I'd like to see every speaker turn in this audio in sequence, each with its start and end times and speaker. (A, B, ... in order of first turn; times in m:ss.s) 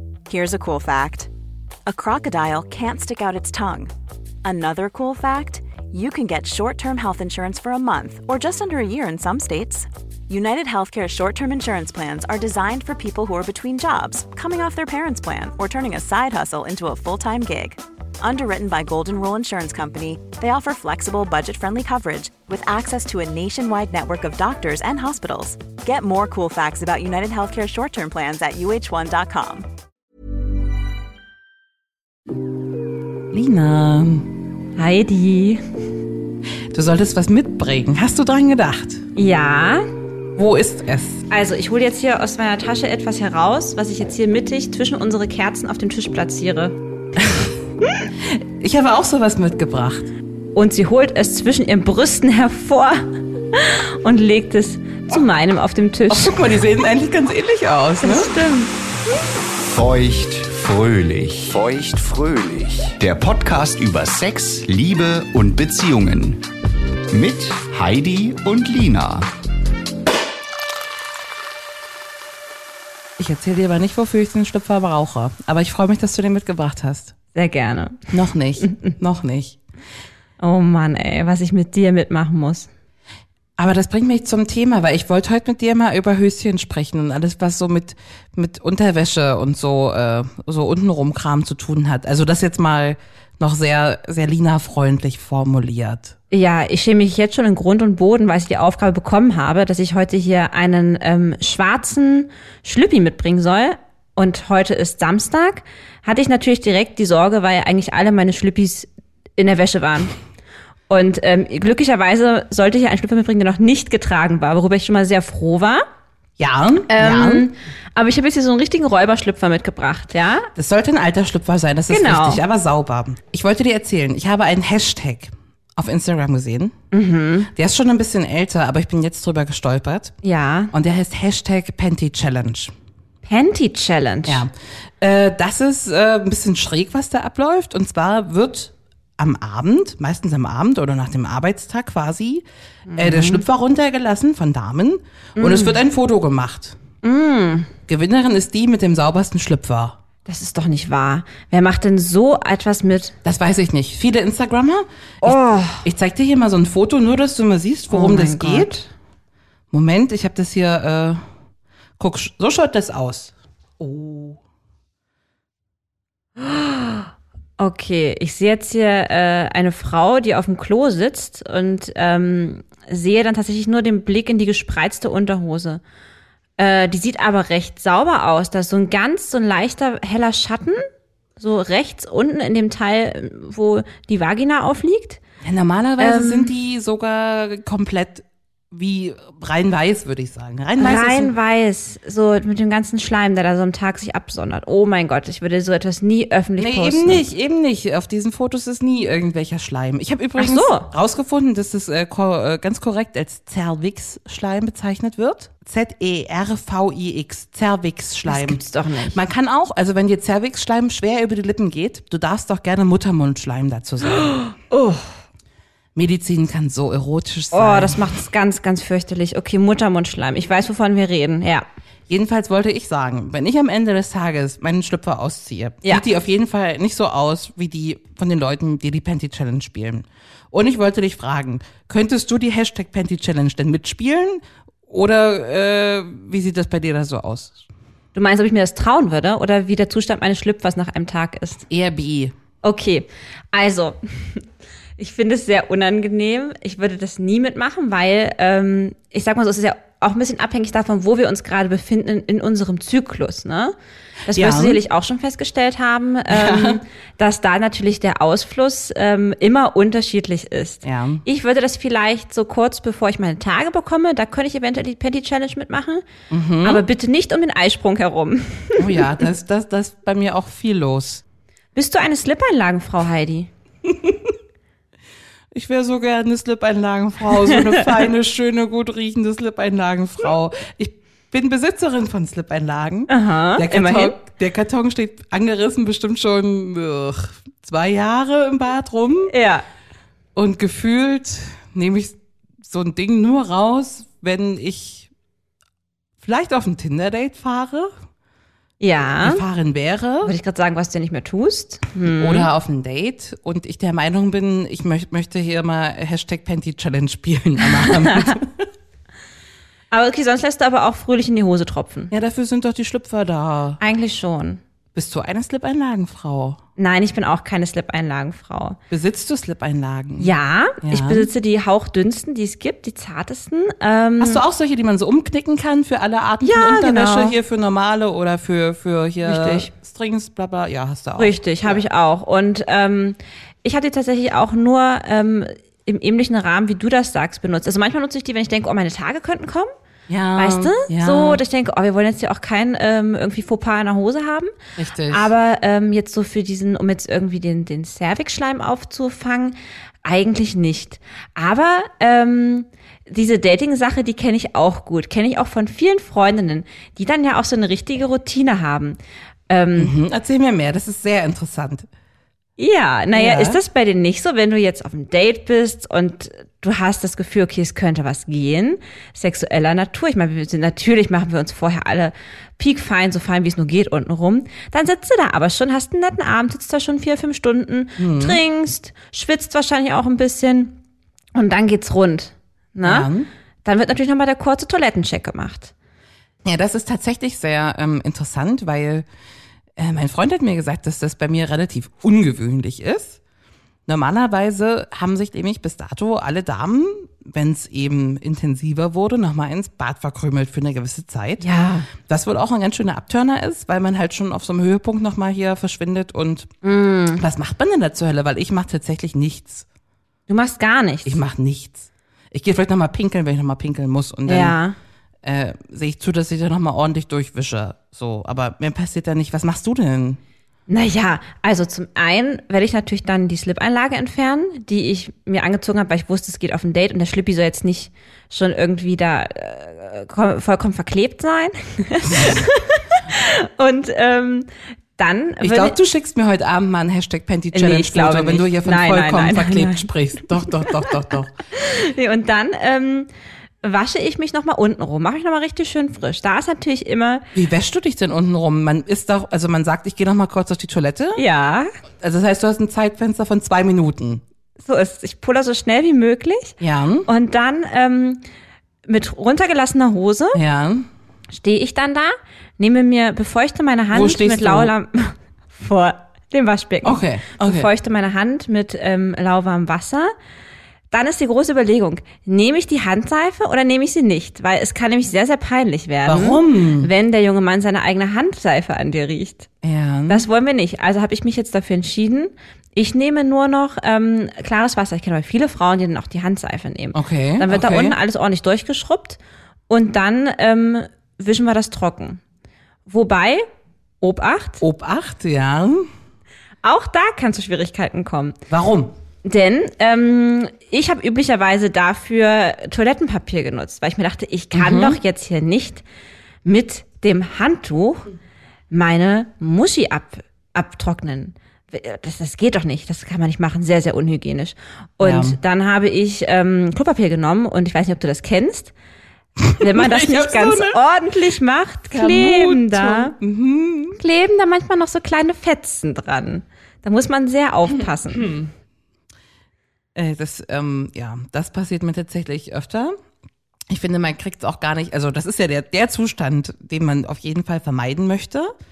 0:00.3-0:01.3 A
0:01.8-0:03.9 A
0:04.4-0:29.7 A
0:33.3-0:34.3 B
0:34.8-0:35.6 C
0:36.7-0:39.0 B
0:39.2-0:39.8 C
0:40.4-0:41.2 B
0:41.3-0:46.7 C
0:47.2-0:47.5 B
0:48.2-0:50.1 B
0:50.5-0:56.5 C
0:56.1-0:58.3 B
0:58.0-0:58.7 C
0:59.7-1:06.4 D
1:07.1-1:09.3 D
1:13.2-1:17.1 B
1:17.3-1:18.1 C
1:18.1-1:19.6 B
1:18.6-1:18.9 C
1:20.4-1:22.7 C
1:23.6-1:36.1 B
1:36.3-1:50.1 C
1:50.9-1:55.8 C
1:56.4-1:57.5 B
1:56.9-2:00.5 C
2:00.6-2:06.7 B
2:01.9-2:02.4 C
2:06.9-2:07.5 C
2:07.5-2:10.1 B
2:10.2-2:10.7 C
2:10.7-2:12.7 B
2:13.2-2:14.4 C
2:14.2-2:22.4 B
2:22.9-2:23.4 C
2:23.0-2:26.8 B
2:25.4-2:25.8 C
2:27.0-2:27.7 C
2:27.9-2:30.0 B
2:30.2-2:33.1 C
2:33.2-2:38.7 B
2:35.2-2:35.8 C
2:37.9-2:38.9 C
2:39.7-2:41.2 B
2:42.0-2:44.4 B
2:46.4-2:55.8 C
2:56.6-3:00.8 C
3:01.4-3:05.2 C
3:05.4-3:11.3 B
3:06.0-3:06.5 C
3:10.8-3:17.2 C
3:16.6-3:34.4 B
3:20.4-3:20.9 C
3:28.3-3:29.2 C
3:34.2-3:35.1 C
3:36.0-3:38.1 B
3:37.5-3:41.7 C
3:42.1-3:57.6 B
3:58.2-4:01.7 C
4:01.7-4:02.3 B
4:02.6-4:04.4 C
4:05.0-4:13.7 C
4:14.3-4:26.0 C
4:14.3-4:14.8 B
4:16.3-4:16.8 B
4:20.8-4:21.2 B
4:26.3-4:26.8 B
4:26.6-4:29.0 C
4:28.8-4:31.2 B
4:31.8-4:33.5 C
4:33.9-4:34.3 B
4:35.5-4:49.3 B
4:37.4-4:37.9 C
4:43.1-4:44.2 C
4:49.3-4:49.6 C
4:50.4-4:55.1 B
4:56.2-4:57.9 B
4:58.8-4:59.4 C
4:59.2-5:00.3 B
5:00.2-5:02.5 C
5:02.2-5:08.5 B
5:07.7-5:08.4 C
5:09.9-5:12.1 C
5:12.1-5:13.8 B
5:13.8-5:14.6 C
5:15.0-5:16.6 B
5:16.8-5:18.8 C
5:18.9-5:21.3 B
5:20.2-5:24.4 C
5:24.2-5:31.8 B
5:26.4-5:27.4 C
5:29.2-5:29.7 C
5:31.2-5:39.7 C
5:40.1-5:41.4 B
5:40.4-5:44.5 C
5:44.8-5:45.2 B
5:45.1-5:59.0 C
5:59.5-5:59.9 C
5:59.8-6:01.9 B
6:02.6-6:20.8 C
6:03.1-6:03.6 B
6:18.0-6:18.4 B
6:21.4-6:23.1 C
6:22.8-6:23.3 B
6:23.6-6:25.7 C
6:26.4-6:29.0 B
6:29.8-6:33.2 B
6:33.9-6:41.4 B
6:41.4-6:41.9 C
6:42.0-6:46.5 B
6:46.6-6:47.2 C
6:47.2-6:49.6 B
6:50.3-6:51.2 C
6:51.0-6:54.6 B
6:54.3-6:54.8 C
6:55.2-7:00.2 B
7:00.7-7:15.8 C
7:15.4-7:21.3 B
7:17.5-7:19.9 C
7:20.5-7:20.9 C
7:21.5-7:23.1 C
7:23.6-7:27.2 C
7:27.4-7:31.2 B
7:31.2-7:31.7 C
7:32.0-7:34.2 B
7:34.6-7:36.6 C
7:36.6-7:37.1 B
7:37.1-7:38.2 C
7:38.9-7:40.4 C
7:40.3-7:40.9 B
7:41.3-7:50.1 C
7:43.9-7:44.7 B
7:46.8-7:47.7 B
7:50.9-7:59.5 C
7:56.0-7:56.9 B
7:59.6-8:00.2 B
8:00.1-8:09.2 C
8:06.9-8:08.0 B
8:09.7-8:12.2 C
8:12.9-8:13.4 C
8:14.0-8:14.6 C
8:14.6-8:15.9 B
8:16.6-8:18.4 C
8:18.5-8:19.0 B
8:19.2-8:25.8 C
8:24.5-8:25.0 B
8:26.4-8:28.1 C
8:28.7-8:38.7 C
8:35.0-8:35.4 B
8:39.4-8:40.8 B
8:39.6-8:43.1 C
8:41.9-8:44.0 B
8:44.0-8:48.3 C
8:47.7-8:48.5 B
8:50.0-8:53.0 B
8:53.7-8:58.5 B